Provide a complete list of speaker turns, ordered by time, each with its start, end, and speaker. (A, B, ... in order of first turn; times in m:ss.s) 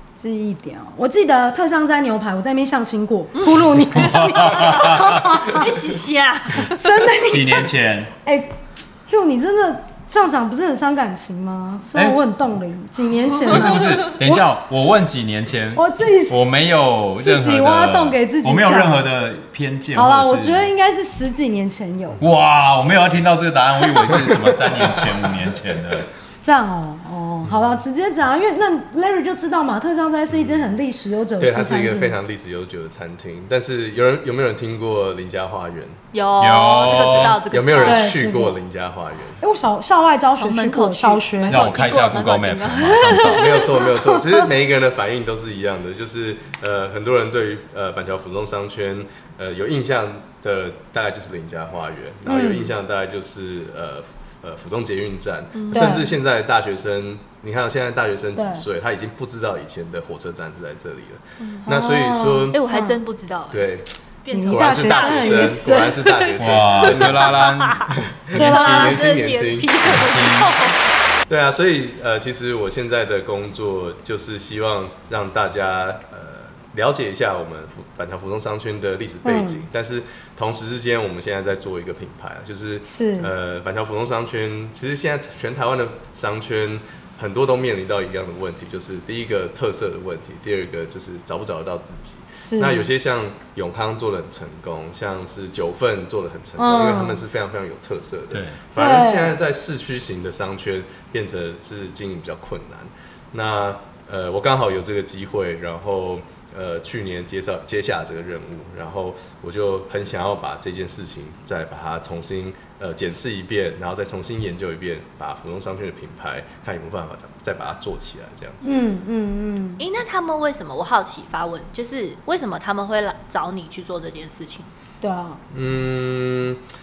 0:00.2-0:05.8 A
0:03.4-0:07.0 B
0:03.9-0:05.5 C
0:06.6-0:07.7 A
0:07.2-0:08.1 C
0:08.2-0:08.6 A
0:09.1-0:14.5 A
0:13.5-0:20.7 C
0:13.5-0:14.2 B
0:15.7-0:16.4 A
0:17.2-0:19.0 A
0:19.9-0:22.2 A
0:22.2-0:23.2 D
0:22.2-0:26.1 C
0:24.0-0:26.0 D
0:26.4-0:32.2 A
0:31.4-0:36.0 D
0:36.1-0:38.1 B
0:36.4-0:37.4 C
0:37.1-0:39.4 D
0:37.8-0:38.6 A
0:39.4-0:41.9 A
0:40.4-0:43.4 B
0:41.5-0:43.7 C
0:43.3-1:02.6 D
0:43.8-0:44.5 A
0:52.2-0:52.8 A
0:55.5-0:56.0 B
0:55.7-0:56.1 A
0:58.4-0:58.6 A
1:01.4-1:01.7 B
1:01.6-1:03.0 A
1:02.5-1:03.7 B
1:03.5-1:03.9 D
1:04.2-1:10.8 B
1:04.3-1:05.9 A
1:04.5-1:09.8 D
1:06.4-1:09.0 C
1:08.4-1:08.8 A
1:09.8-1:10.6 C
1:11.3-1:58.8 D
1:19.2-1:19.6 A
1:22.8-1:23.3 A
1:32.4-1:32.9 A
1:36.6-1:37.2 A
1:38.3-1:38.6 C
1:38.8-1:39.4 A
1:58.6-1:59.8 A
1:59.8-2:04.7 B
2:05.0-2:05.4 A
2:05.5-2:06.6 D